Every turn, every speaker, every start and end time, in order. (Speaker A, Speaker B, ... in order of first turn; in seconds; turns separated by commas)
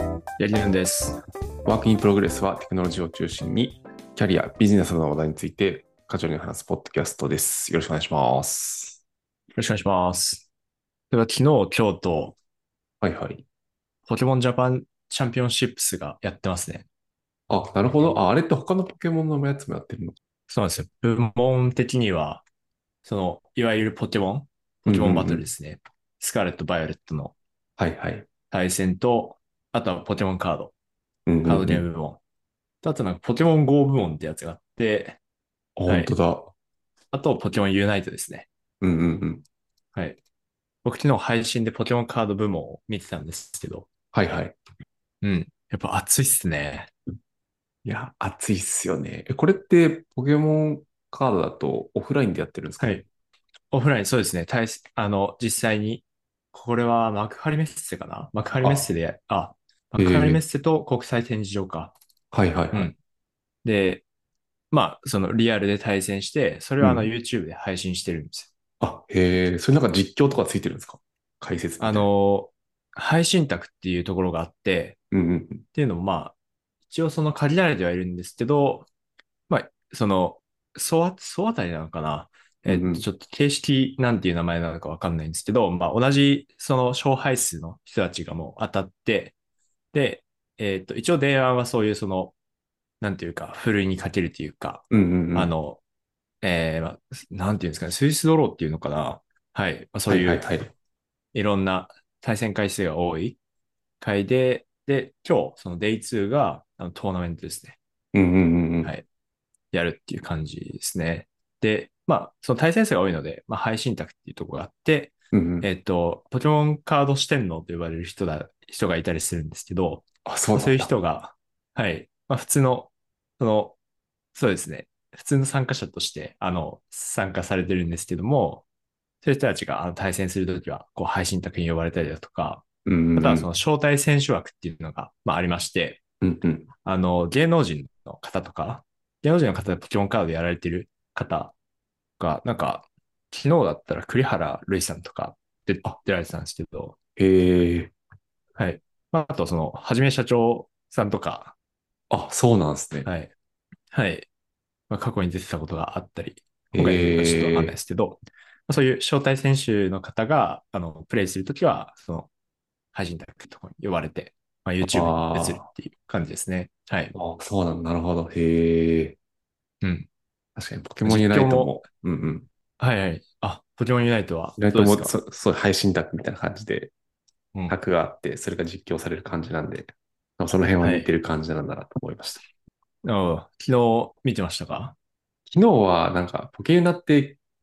Speaker A: 0.4-1.2, Speaker B: 1.6-9.0, Speaker A: 9.6-10.5, Speaker A: 11.1-12.4, Speaker B: 13.0-13.4, Speaker A: 14.1-16.9, Speaker B: 17.5-20.2, Speaker A: 20.5-22.4, Speaker A: 23.0-27.4, Speaker B: 24.9-25.5, Speaker B: 27.8-28.3, Speaker A: 28.5-30.7, Speaker B: 31.3-31.8, Speaker A: 31.4-32.2, Speaker A: 32.8-35.2, Speaker B: 35.8-36.5, Speaker A: 35.9-36.1, Speaker A: 37.1-38.5, Speaker B: 38.8-39.4, Speaker A: 40.8-43.9, Speaker B: 44.1-44.6, Speaker A: 45.2-46.9, Speaker B: 47.9-53.0, Speaker A: 52.8-53.0, Speaker A: 53.7-62.0, Speaker B: 58.6-58.9, Speaker B: 60.0-60.4, Speaker B: 62.3-62.9, Speaker A: 63.6-64.0, Speaker A: 64.7-68.5, Speaker B: 66.8-67.1, Speaker B: 68.8-72.1, Speaker A: 71.8-75.0, Speaker B: 75.1-75.7, Speaker A: 75.7-76.3, Speaker A: 76.9-78.9, Speaker A: 79.5-89.3, Speaker B: 82.7-83.0, Speaker A: 89.9-92.3, Speaker A: 93.0-95.8, Speaker B: 94.9-95.5, Speaker A: 96.4-100.5, Speaker B: 100.1-100.7, Speaker A: 101.3-103.4, Speaker A: 104.0-107.8, Speaker B: 108.1-108.9, Speaker A: 109.7-123.8, Speaker B: 115.3-115.7, Speaker B: 120.3-120.9, Speaker A: 124.3-128.7, Speaker A: 129.2-136.0, Speaker B: 132.8-133.5, Speaker B: 136.2-136.7, Speaker A: 136.8-141.5, Speaker A: 142.2-147.0, Speaker B: 147.2-147.9, Speaker A: 148.6-151.5, Speaker B: 152.1-153.1, Speaker A: 153.1-153.3, Speaker A: 153.9-154.3, Speaker A: 154.9-162.3, Speaker B: 156.7-157.8, Speaker A: 162.9-167.1, Speaker B: 164.8-165.7, Speaker B: 167.1-169.2, Speaker A: 169.8-170.1, Speaker B: 170.6-172.5, Speaker A: 171.0-171.7, Speaker A: 172.8-175.2, Speaker B: 174.6-176.9, Speaker B: 177.7-182.4, Speaker A: 180.8-181.1, Speaker A: 183.0-184.9, Speaker B: 185.5-187.4